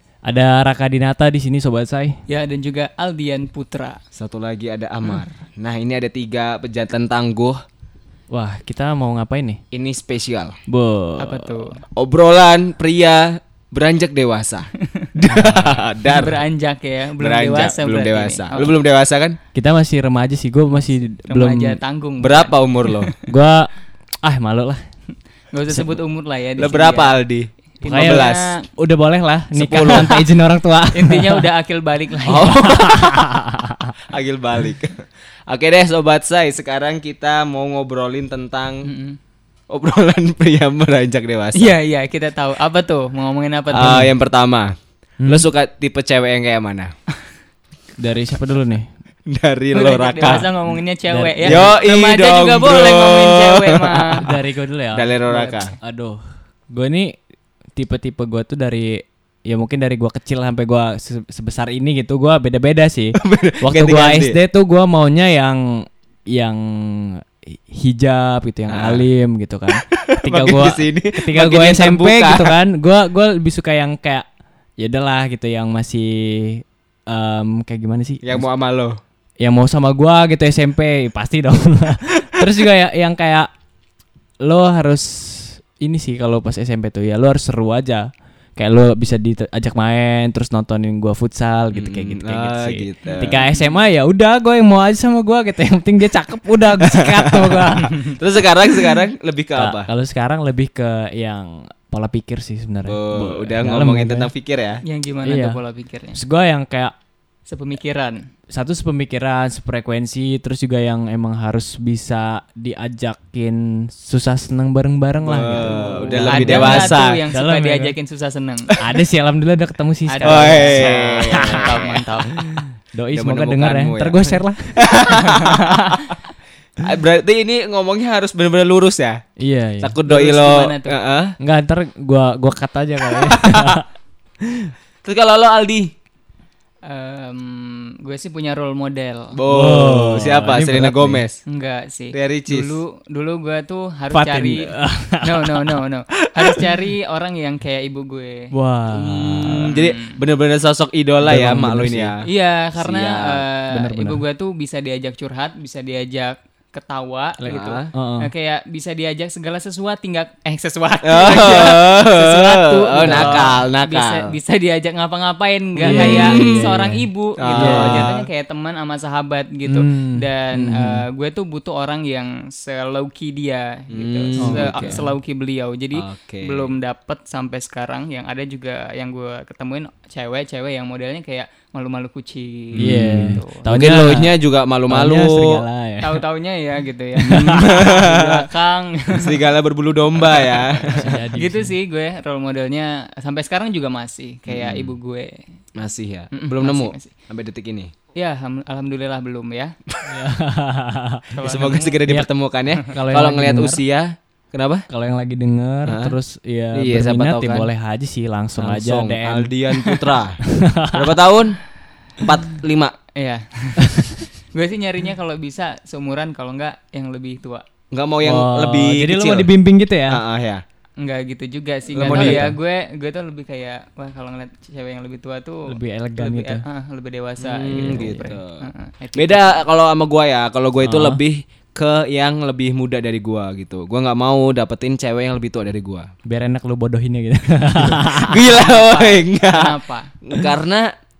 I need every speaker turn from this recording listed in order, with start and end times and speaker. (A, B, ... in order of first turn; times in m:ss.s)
0:00.2-0:02.2 A
0:02.3-0:04.0 B
0:04.1-0:07.6 C
0:08.3-0:09.6 A
0:09.7-0:10.6 C
0:10.7-0:11.6 A
0:11.2-0:11.8 B
0:12.0-0:16.4 C
0:15.3-0:15.8 A
0:16.1-0:18.7 B
0:17.2-0:19.4 C
0:19.5-0:21.8 A
0:21.3-0:23.1 B
0:22.2-0:23.1 C
0:23.3-0:23.7 A
0:24.2-0:24.8 A
0:25.5-0:27.2 B
0:25.7-0:26.0 A
0:26.6-0:28.5 C
0:27.8-0:28.6 B
0:27.8-0:31.5 A
0:29.5-0:30.2 C
0:30.9-0:32.6 B
0:32.3-0:33.4 C
0:32.3-0:33.9 A
0:34.1-0:38.9 C
0:38.8-0:39.2 B
0:39.7-0:41.7 C
0:41.6-0:44.0 B
0:43.7-0:46.9 C
0:43.8-0:44.1 A
0:45.2-0:45.5 A
0:48.0-0:48.9 A
0:49.3-0:50.5 C
0:49.7-0:54.2 B
0:51.1-0:51.7 A
0:51.4-0:54.4 C
0:54.2-0:55.1 A
0:54.9-0:55.7 C
0:55.3-0:55.8 B
0:55.8-0:57.1 A
0:57.8-1:14.3 A
1:03.2-1:04.4 C
1:08.7-1:09.0 C
1:09.7-1:12.5 C
1:14.8-1:18.5 A
1:18.2-1:19.0 C
1:19.4-1:23.5 A
1:24.4-1:38.0 A
1:31.7-1:33.3 C
1:33.0-1:33.8 B
1:36.8-1:39.9 C
1:37.6-1:38.2 B
1:39.6-1:44.3 A
1:42.8-1:44.8 C
1:44.8-1:46.2 B
1:45.2-1:45.6 A
1:46.1-1:46.9 A
1:47.5-1:48.2 B
1:48.5-1:57.9 A
1:55.2-1:57.2 C
1:55.5-1:58.8 B
1:58.8-2:01.8 A
2:00.1-2:02.4 B
2:00.2-2:02.0 C
2:02.4-2:04.9 A
2:03.1-2:06.2 C
2:05.2-2:06.1 B
2:06.8-2:09.2 C
2:09.4-2:10.0 A
2:09.8-2:11.4 C
2:10.0-2:11.0 B
2:11.4-2:13.9 A
2:13.2-2:13.8 C
2:14.4-2:14.7 A
2:15.0-2:15.9 C
2:16.8-2:19.4 B
2:19.3-2:21.4 C
2:19.5-2:21.2 A
2:21.5-2:28.5 B
2:22.1-2:22.8 C
2:24.1-2:25.8 A
2:28.5-2:29.8 A
2:29.2-2:30.2 B
2:29.4-2:32.2 C
2:31.2-2:32.1 A
2:32.2-3:03.6 B
2:32.8-2:33.4 C
2:33.7-2:34.2 A
2:37.4-2:37.9 C
2:37.9-2:38.3 A
2:41.0-2:44.3 C
2:43.0-2:43.6 A
2:45.8-2:46.7 C
2:45.8-2:47.0 A
2:47.4-2:48.2 C
2:47.6-2:48.2 A
2:49.7-2:51.0 A
2:53.9-2:55.0 C
2:54.4-2:55.0 A
2:55.9-2:56.7 C
3:02.7-3:05.6 C
3:02.8-3:06.2 A
3:06.0-3:09.4 B
3:07.2-3:08.1 A
3:07.2-3:08.4 C
3:09.2-3:11.1 C
3:10.2-3:15.4 B
3:10.8-3:11.7 A
3:14.5-3:14.9 C
3:15.7-3:17.9 C
3:16.3-3:17.1 B
3:18.1-3:19.8 B
3:20.0-3:21.4 A
3:21.3-3:22.0 B
3:21.4-3:24.8 C
3:22.0-3:22.3 A
3:22.8-3:23.8 A
3:24.9-3:29.5 A
3:25.9-3:26.2 C
3:26.7-3:27.7 C
3:28.6-3:31.6 C
3:30.4-3:31.1 A
3:32.2-3:32.9 C
3:33.1-3:37.6 B
3:37.9-3:39.5 C
3:38.2-3:40.2 A
3:40.1-3:40.6 C
3:41.0-3:49.6 B
3:41.9-3:42.6 A
3:42.0-3:42.5 C
3:45.7-3:46.6 A
3:47.4-3:48.6 C
3:47.7-3:48.3 A
3:49.2-3:56.1 C
3:50.8-3:51.2 A
3:56.2-3:58.4 A
3:58.1-4:00.8 C
3:58.5-4:00.1 B